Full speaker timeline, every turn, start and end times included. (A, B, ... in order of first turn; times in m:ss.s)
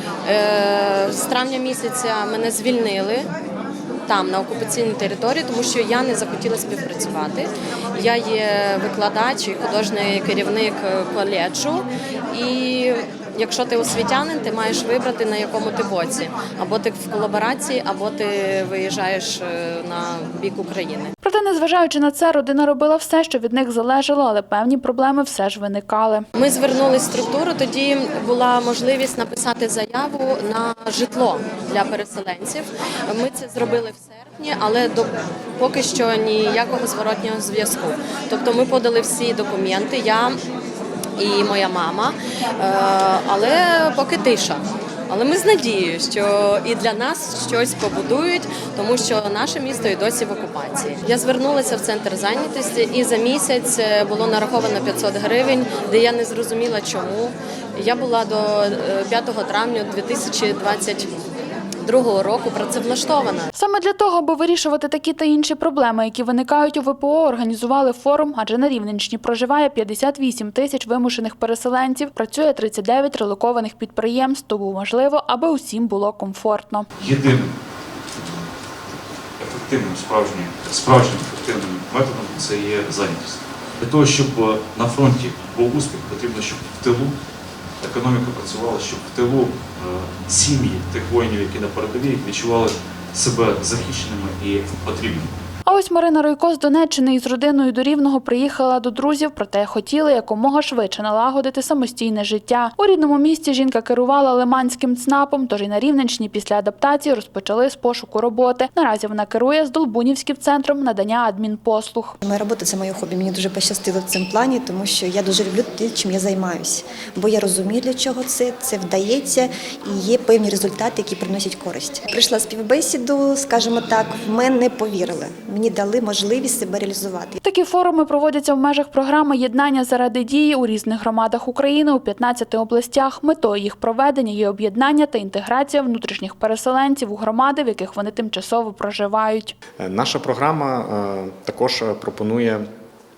0:00.2-0:03.3 A
0:04.1-0:21.1 A
0:21.2-0:26.3 B
0:26.3-0:40.4 A
0:41.2-1:01.1 A
1:01.8-1:03.5 A
1:03.5-1:16.9 B
1:17.0-1:17.5 C
1:18.2-1:18.4 C
1:19.4-1:27.1 C
1:27.8-1:35.3 C
1:35.6-1:52.2 B
1:52.2-2:07.4 D
2:07.4-2:19.5 B
2:19.8-2:22.6 E